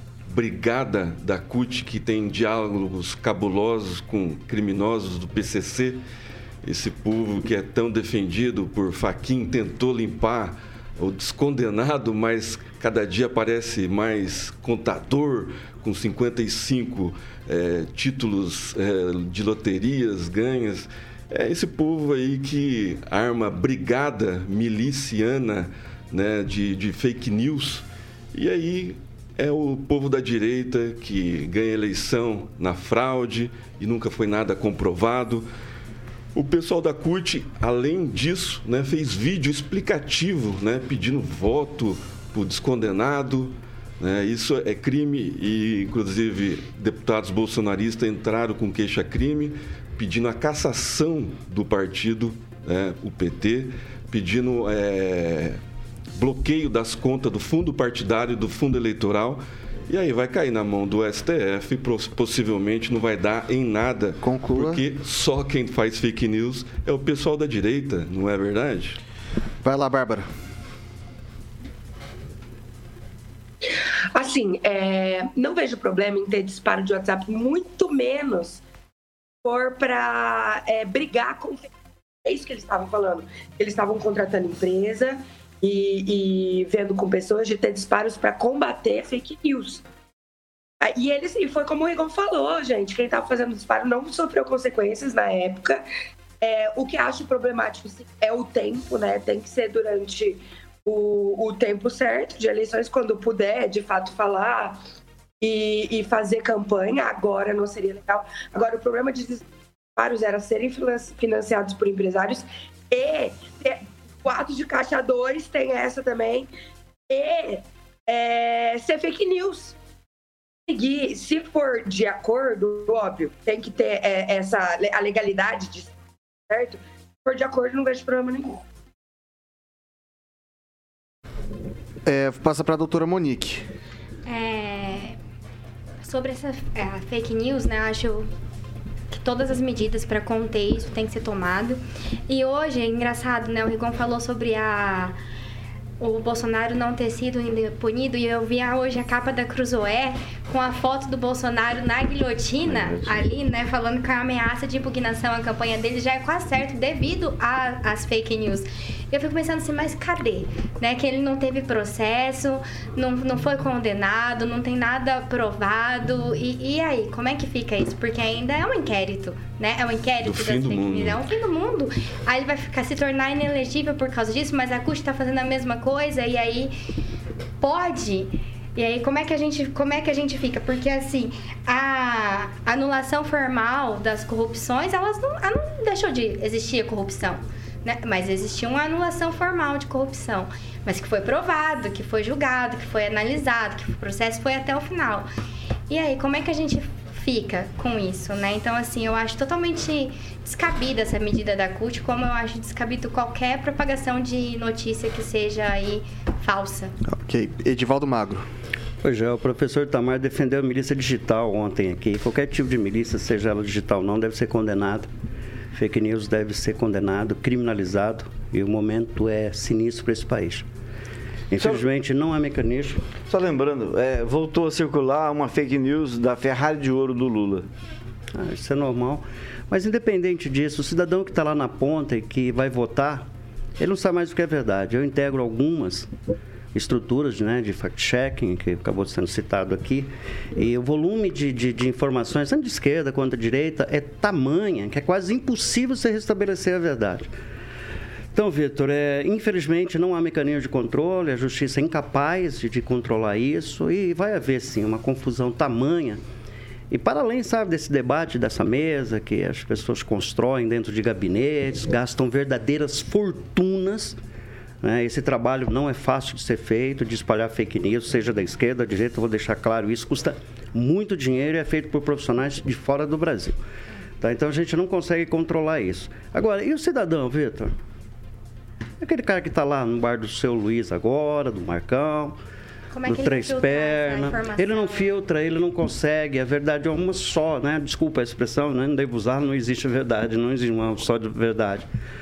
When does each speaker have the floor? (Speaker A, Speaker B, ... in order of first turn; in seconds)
Speaker A: 0.3-6.0, 6.6-35.5, 36.3-55.6, 56.1-69.0, 170.2-171.2
Speaker B: 64.2-64.8, 69.6-70.2, 132.0-133.7, 207.0-208.4
Speaker C: 74.1-78.6, 79.4-81.7, 82.2-89.8, 90.8-95.8, 96.4-104.8, 105.4-109.4, 110.0-116.5, 117.1-119.8, 120.7-125.9, 126.5-128.6
Speaker D: 134.2-135.2, 136.0-138.3, 139.1-145.1, 146.0-176.7, 177.6-195.3, 195.9-206.9, 282.9-285.1
Speaker E: 152.7-153.2, 221.6-221.8, 223.3-227.7
Speaker F: 209.0-215.1, 215.7-220.7, 221.5-223.0, 228.3-233.3, 233.8-236.1, 236.7-247.3, 248.3-256.2, 256.9-264.2, 264.8-273.6, 274.2-277.7, 279.0-282.4, 283.1-291.9